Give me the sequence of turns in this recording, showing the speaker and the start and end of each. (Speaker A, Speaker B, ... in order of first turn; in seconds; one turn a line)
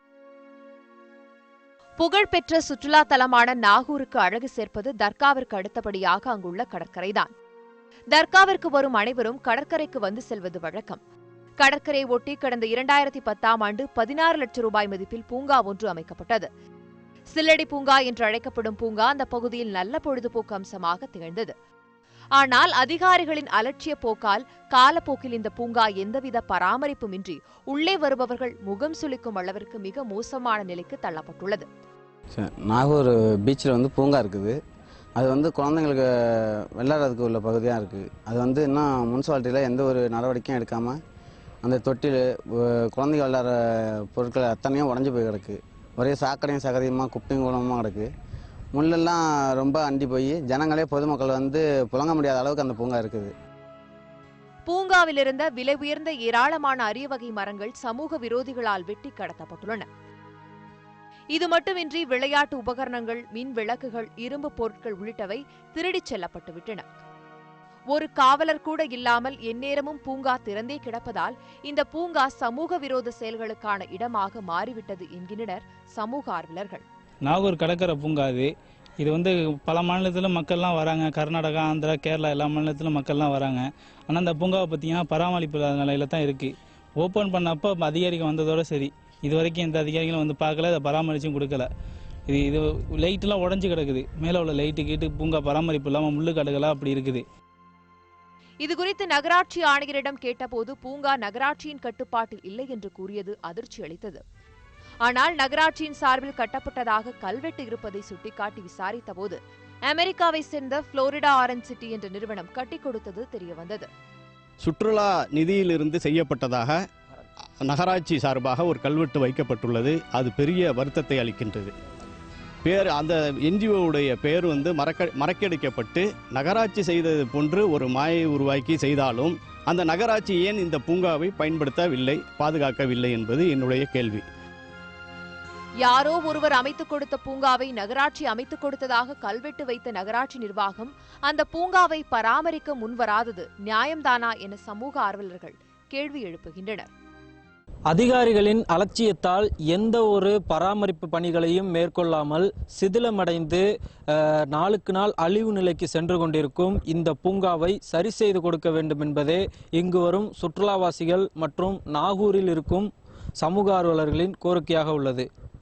Speaker A: 2.0-7.3
Speaker A: 8.1-11.0
Speaker A: 11.6-16.5
Speaker A: 17.3-21.5
Speaker A: 22.4-31.7
Speaker B: 32.3-34.6
Speaker B: 35.2-41.0
Speaker B: 41.6-48.1
Speaker B: 48.7-53.3
Speaker A: 54.7-59.9
Speaker A: 61.3-66.8
Speaker A: 67.9-76.8
Speaker C: 77.3-91.7
Speaker C: 92.3-97.2
Speaker A: 98.6-104.2
Speaker A: 105.0-113.9
Speaker D: 114.6-116.8
Speaker D: 117.6-121.7
Speaker D: 122.6-134.2
Speaker A: 135.8-146.9
Speaker E: 147.9-165.2